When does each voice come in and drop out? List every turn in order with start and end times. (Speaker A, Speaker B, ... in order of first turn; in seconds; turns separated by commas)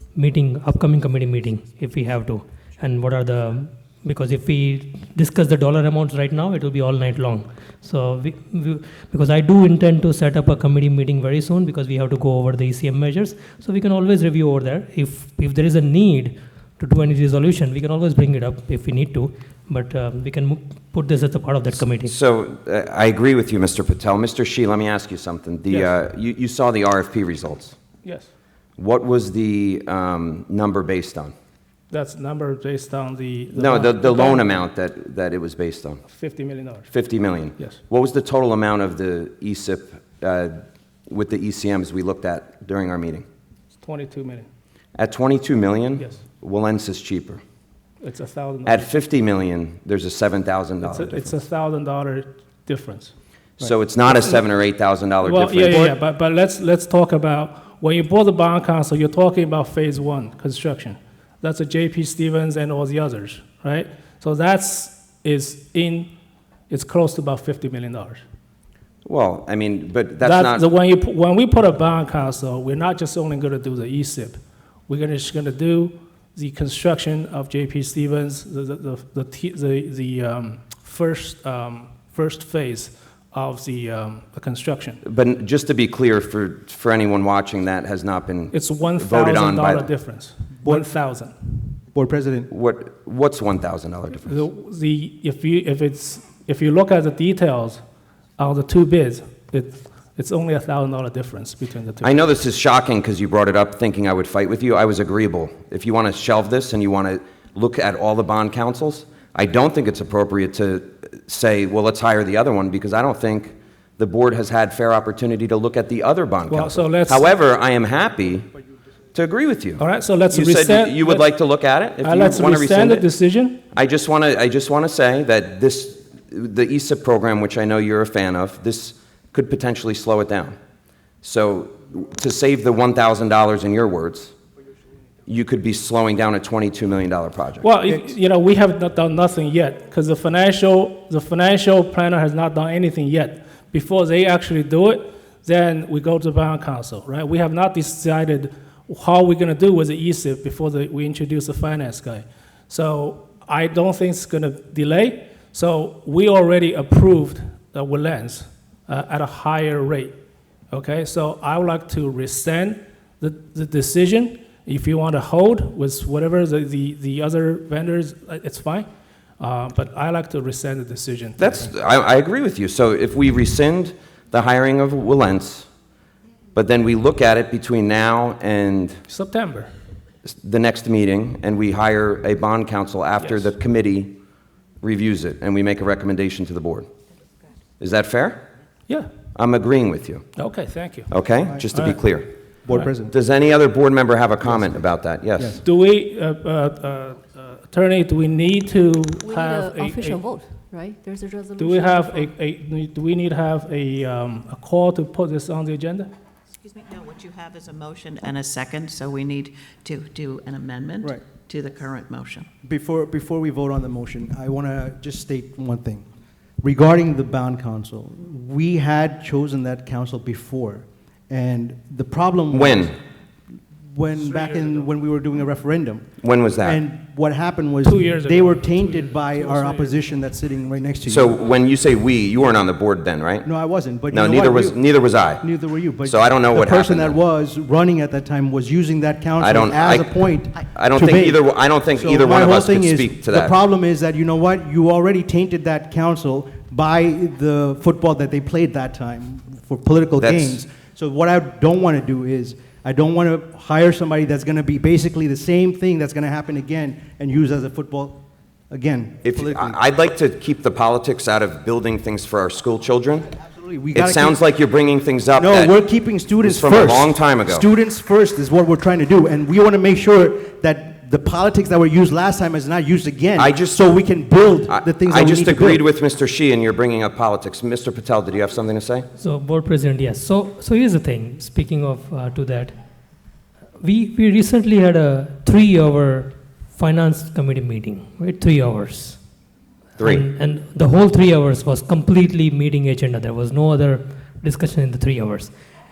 Speaker A: 0.1-22.1, Speaker B: 21.8-27.8, Speaker C: 28.0-28.3, Speaker B: 28.8-31.3, Speaker C: 31.9-34.5, Speaker B: 33.5-36.0, Speaker C: 36.1-36.9, Speaker B: 36.9-43.3, Speaker C: 43.8-44.5, Speaker B: 45.0-47.4, Speaker C: 46.0-46.2, Speaker C: 48.0-49.0, Speaker B: 48.7-51.4, Speaker C: 50.8-53.1, Speaker B: 53.6-56.0, Speaker C: 55.2-66.1, Speaker C: 66.7-68.2, Speaker B: 69.0-70.7, Speaker C: 70.2-85.0, Speaker B: 85.0-89.9, Speaker C: 88.5-91.7, Speaker D: 91.9-92.5, Speaker B: 92.5-94.4, Speaker C: 94.2-97.8, Speaker C: 98.4-102.3, Speaker B: 102.0-118.5, Speaker C: 116.5-117.3, Speaker B: 119.1-123.0, Speaker C: 119.8-121.4, Speaker C: 122.0-123.6, Speaker B: 123.7-130.6, Speaker B: 131.2-134.3, Speaker B: 135.3-137.7, Speaker C: 137.6-160.2, Speaker C: 160.7-171.7, Speaker B: 171.4-175.7, Speaker B: 176.6-179.0, Speaker C: 179.1-179.7, Speaker B: 180.2-184.2, Speaker C: 183.2-183.5, Speaker B: 184.8-186.9, Speaker B: 187.8-188.4, Speaker B: 189.3-190.2, Speaker C: 190.4-191.1, Speaker B: 191.1-192.4, Speaker D: 191.4-191.7, Speaker C: 191.7-192.1, Speaker D: 192.7-193.1, Speaker B: 193.1-195.6, Speaker D: 194.4-194.8, Speaker D: 195.4-195.6, Speaker C: 195.6-200.3, Speaker E: 199.2-202.3, Speaker C: 201.6-206.1, Speaker F: 206.7-212.5, Speaker D: 212.6-216.1, Speaker D: 216.6-223.0, Speaker B: 222.5-222.9, Speaker D: 223.9-231.4, Speaker C: 224.4-224.7, Speaker B: 226.2-226.8, Speaker C: 227.8-230.0, Speaker B: 231.1-233.5, Speaker D: 233.4-234.9, Speaker B: 234.1-237.2, Speaker D: 235.4-259.8, Speaker B: 239.4-243.5, Speaker B: 250.2-250.6, Speaker B: 259.2-263.3, Speaker D: 263.4-264.4, Speaker B: 263.9-265.8, Speaker D: 265.4-275.8, Speaker B: 266.4-267.7, Speaker B: 273.4-273.9, Speaker B: 274.7-279.1, Speaker A: 279.2-282.7, Speaker A: 283.8-289.2, Speaker B: 290.0-290.3, Speaker A: 290.0-295.5